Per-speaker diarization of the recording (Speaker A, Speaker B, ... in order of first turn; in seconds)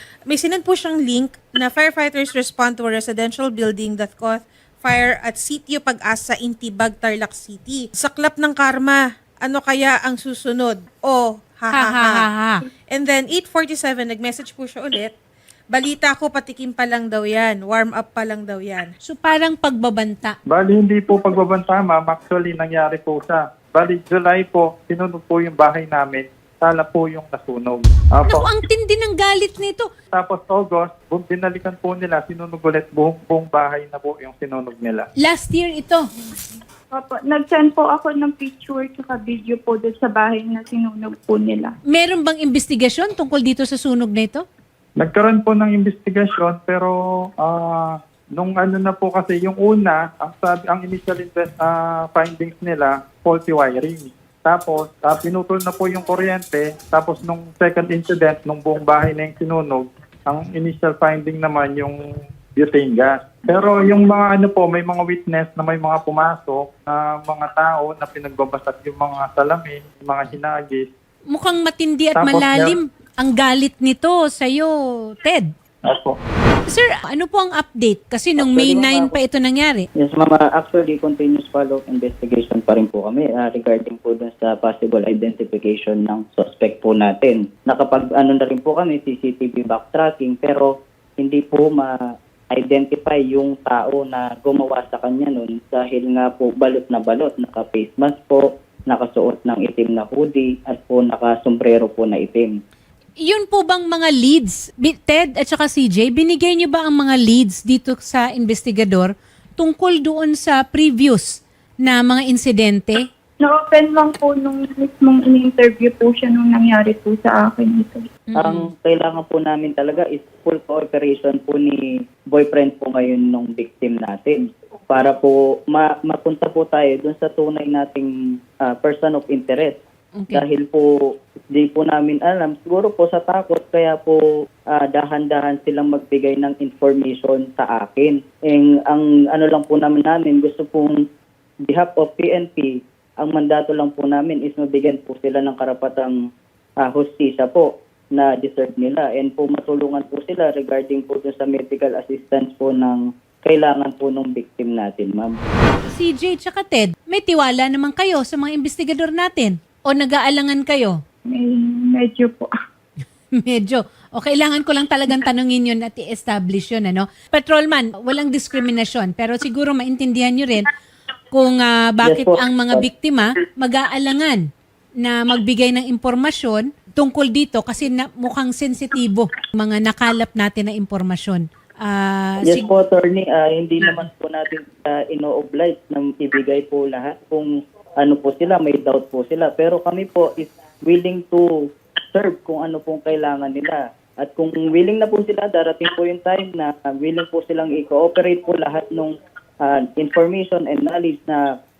Speaker A: 0.3-12.3, 12.9-15.1, 15.7-18.9
Speaker B: 11.7-12.6, 19.1-20.4, 28.3-29.9, 35.2-36.1, 41.9-44.4, 71.3-75.5, 76.7-79.9, 103.2-113.0, 118.3-118.7, 130.2-130.4, 155.9-161.0, 163.4-170.7, 171.3-174.4, 175.0-182.7
Speaker C: 20.5-28.5, 30.1-35.1, 45.0-62.0, 62.6-70.9, 72.2-72.8, 75.8-76.2
Speaker D: 36.9-41.7, 113.4-118.0, 161.3-162.5
Speaker E: 78.4-79.2, 80.0-91.9, 92.5-102.6, 118.4-121.8, 122.3-128.1, 128.7-129.8, 130.3-130.9, 131.5-134.2, 134.7-140.9, 141.7-146.2, 146.8-155.4, 172.0-172.8, 182.5-191.5, 192.1-201.4